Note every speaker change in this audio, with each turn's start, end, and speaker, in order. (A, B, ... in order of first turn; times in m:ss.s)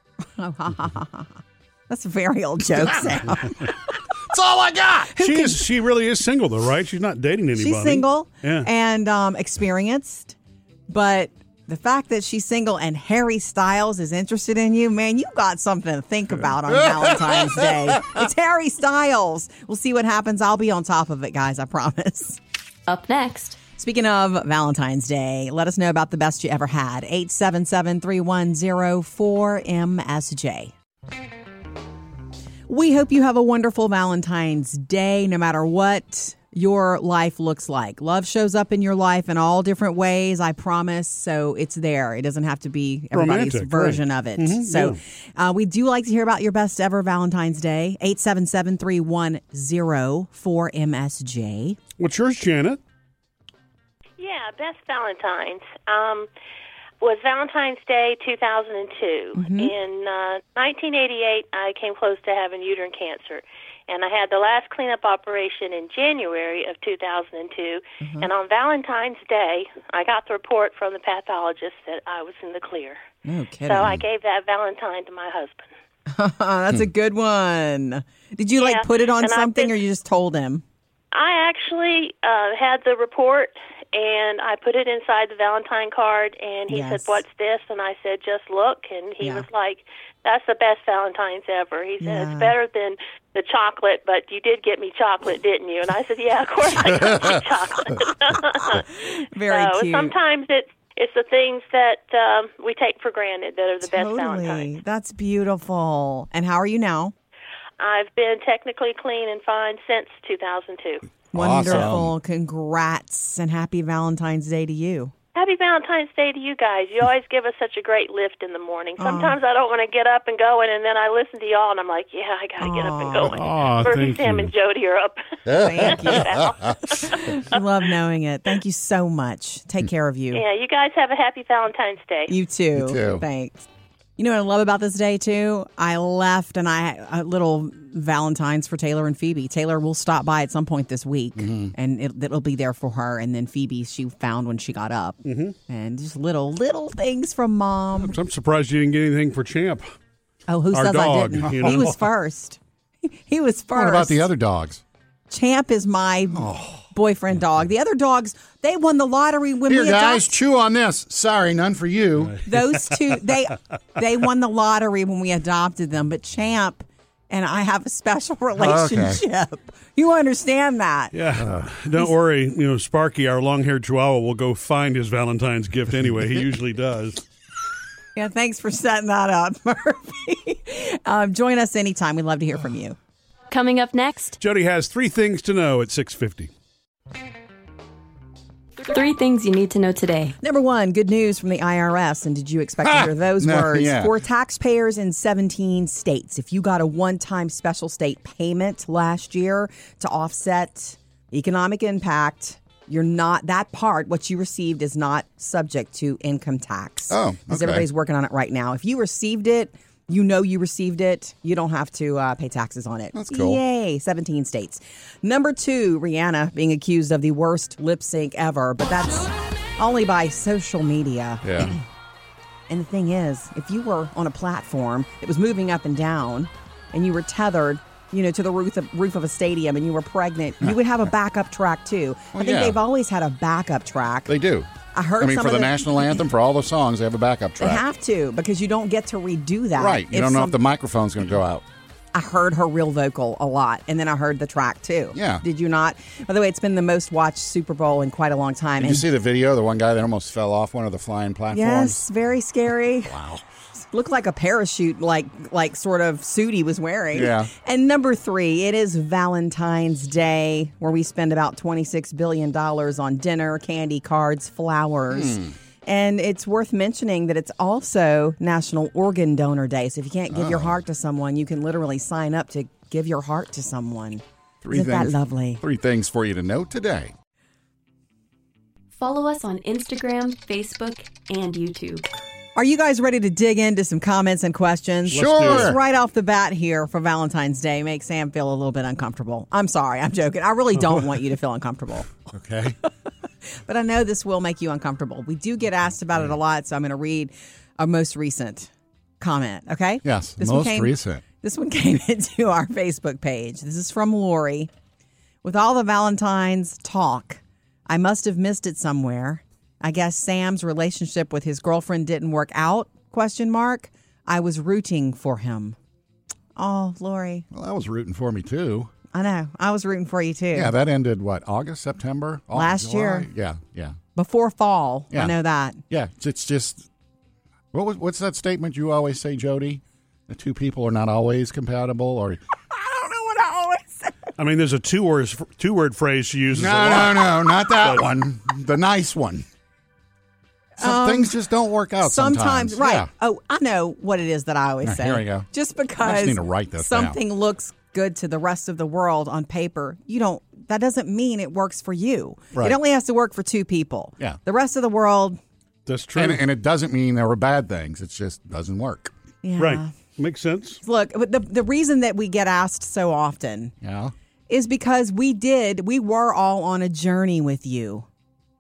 0:00.4-0:01.3 A
0:01.9-0:03.8 A
0:02.8-0:03.3 B
0:04.2-0:05.2 B
0:05.1-0:05.6 A
0:05.2-0:08.7 C
0:07.6-0:10.3 A
0:10.9-0:22.4 A
0:22.9-0:23.6 D
0:23.8-0:30.7 A
0:32.7-0:51.8 A
0:43.1-0:45.0 C
0:52.0-0:52.8 C
0:54.2-0:56.3 E
0:57.0-1:13.0 E
0:59.4-0:59.7 A
1:08.0-1:08.3 A
1:13.2-1:14.0 A
1:13.7-1:15.7 E
1:16.1-1:20.6 A
1:18.6-1:19.8 E
1:21.1-1:38.9 E
1:26.7-1:27.2 A
1:29.2-1:29.4 A
1:32.0-1:32.5 A
1:38.6-1:40.1 A
1:39.5-1:44.7 E
1:43.8-1:47.1 A
1:47.8-1:51.1 E
1:51.3-1:55.1 A
1:51.3-1:52.1 B
1:55.3-2:07.6 E
1:59.0-1:59.3 A
2:02.6-2:03.4 A
2:03.3-2:04.5 C
2:05.5-2:06.7 B
2:05.5-2:06.3 A
2:06.9-2:10.4 A
2:10.3-2:12.3 E
2:12.3-2:28.1 A
2:12.7-2:13.2 B
2:21.4-2:21.7 B
2:25.2-2:25.5 C
2:28.0-2:29.9 C
2:30.5-2:34.2 A
2:30.7-2:32.0 C
2:31.5-2:31.8 B
2:33.7-2:34.8 B
2:35.3-2:40.4 A
2:36.3-2:36.8 B
2:39.7-2:42.4 B
2:42.4-2:51.1 A
2:48.6-2:49.2 B
2:51.1-2:57.2 C
2:51.4-2:51.6 B
2:58.2-3:03.0 A
3:03.5-3:04.4 D
3:04.4-3:06.5 C
3:08.8-3:10.4 D
3:10.4-3:41.8 A
3:12.8-3:14.1 B
3:27.1-3:27.8 B
3:33.1-3:33.6 B
3:41.4-3:41.7 B
3:42.7-3:54.3 A
3:52.3-3:52.8 B
3:54.3-3:57.8 B
3:54.9-3:56.1 A
3:57.6-4:00.6 A
3:59.8-4:01.6 B
4:02.1-4:09.1 A
4:05.1-4:05.4 B
4:08.8-4:12.0 B
4:11.5-4:13.2 A
4:13.0-4:13.4 B
4:13.8-4:35.6 A
4:17.1-4:17.5 B
4:25.1-4:25.5 B
4:30.3-4:30.8 B
4:34.6-4:37.1 B
4:38.9-4:42.0 D
4:42.5-4:52.1 A
4:45.1-4:45.8 B
4:45.1-4:45.8 C
4:52.3-4:52.8 B
4:53.6-5:04.7 A
5:00.0-5:01.2 B
5:05.4-5:15.8 A
5:16.6-5:17.5 A
5:17.5-5:18.9 B
5:19.1-5:20.7 A
5:20.5-5:24.0 B
5:22.5-5:23.3 A
5:24.1-5:25.8 A
5:25.9-5:26.9 B
5:27.7-5:32.4 B
5:32.7-5:34.3 A
5:34.4-5:38.0 C
5:36.5-5:39.4 B
5:40.8-5:41.3 A
5:40.8-5:43.1 B
5:42.0-5:55.4 A
5:44.8-5:45.5 B
5:46.0-5:47.2 B
5:52.5-5:52.8 B
5:55.8-5:56.4 C
5:56.1-5:59.1 B
5:59.4-5:59.9 A
5:59.6-6:00.8 C
6:00.8-6:03.7 A
6:03.8-6:04.1 B
6:04.5-6:08.0 A